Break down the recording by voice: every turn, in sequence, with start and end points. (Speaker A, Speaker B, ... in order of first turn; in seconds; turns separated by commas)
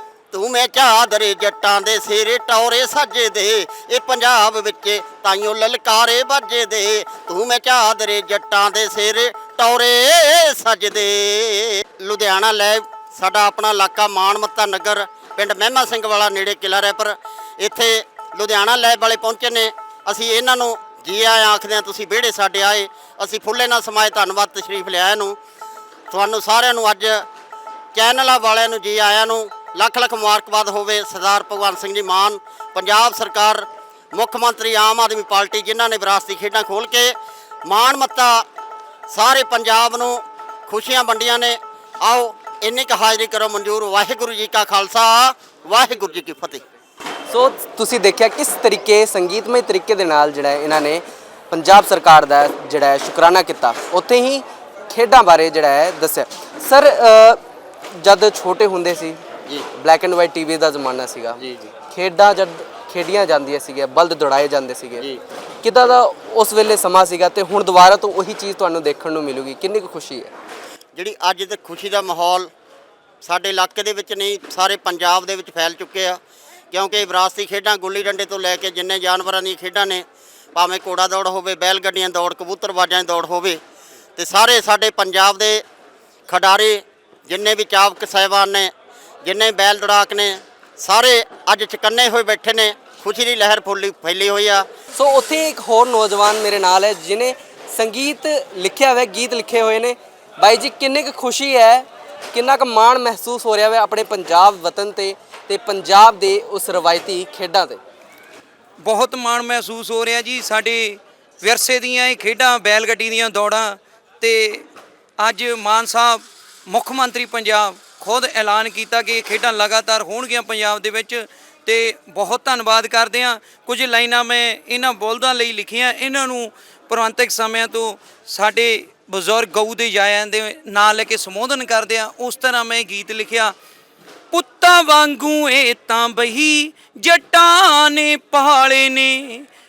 Speaker A: 0.3-25.4, Speaker A: 26.1-27.2, Speaker A: 27.9-37.1, Speaker A: 37.7-38.4, Speaker A: 39.1-46.6, Speaker B: 47.3-57.4, Speaker B: 58.0-59.2, Speaker B: 59.7-65.1, Speaker A: 61.4-61.7, Speaker B: 65.6-70.3, Speaker A: 71.0-72.5, Speaker A: 73.2-76.2, Speaker A: 76.7-83.6, Speaker A: 84.2-85.6, Speaker A: 86.3-88.7, Speaker A: 89.2-94.7, Speaker B: 95.0-107.8, Speaker C: 108.8-114.7, Speaker C: 115.2-133.5, Speaker C: 134.3-139.5